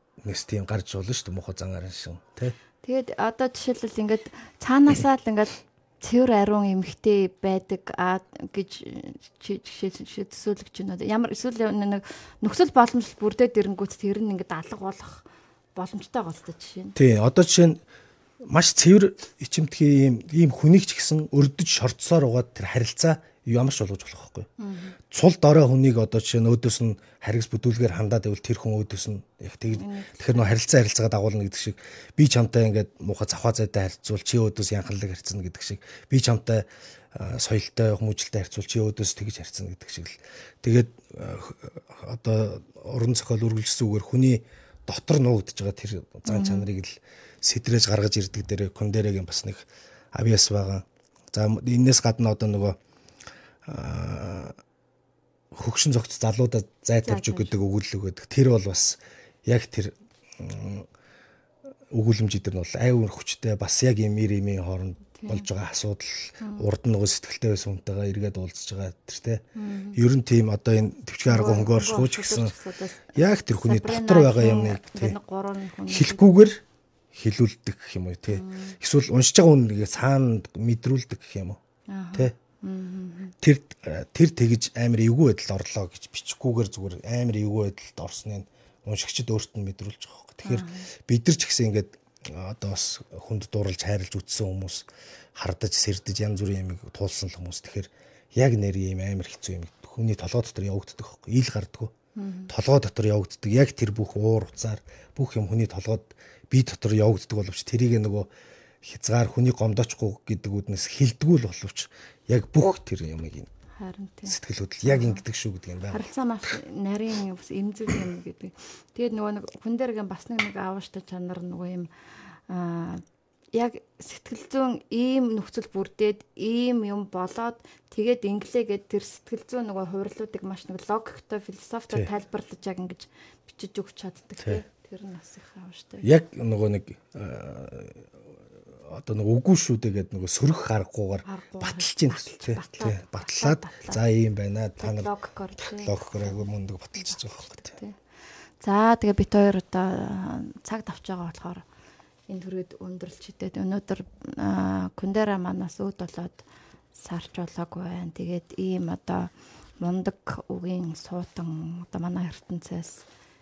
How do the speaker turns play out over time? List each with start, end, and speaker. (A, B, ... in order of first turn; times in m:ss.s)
0:00.2-0:02.6 A
0:02.8-0:17.0 B
0:17.0-0:17.8 A
0:18.4-0:24.5 A
0:24.6-0:25.0 B
0:25.1-0:52.8 A
0:29.7-0:30.5 B
0:46.3-0:46.7 B
0:53.7-0:54.6 A
0:55.5-1:00.9 A
0:57.0-0:57.6 B
1:01.9-1:12.5 A
1:05.2-1:05.5 B
1:06.4-1:06.7 B
1:09.6-1:10.0 B
1:11.3-1:16.4 B
1:13.1-1:15.2 A
1:15.9-1:16.6 A
1:17.1-1:21.6 A
1:18.3-1:18.8 B
1:21.9-1:23.4 B
1:23.4-1:41.9 A
1:30.4-1:30.9 B
1:42.2-1:42.5 B
1:42.5-1:48.3 A
1:48.8-1:53.5 A
1:53.8-1:55.2 B
1:54.3-1:56.1 A
1:55.9-2:16.1 B
2:16.0-2:18.0 A
2:18.9-2:27.8 A
2:21.2-2:24.0 B
2:24.8-2:28.0 B
2:28.6-2:31.7 B
2:32.3-2:43.1 B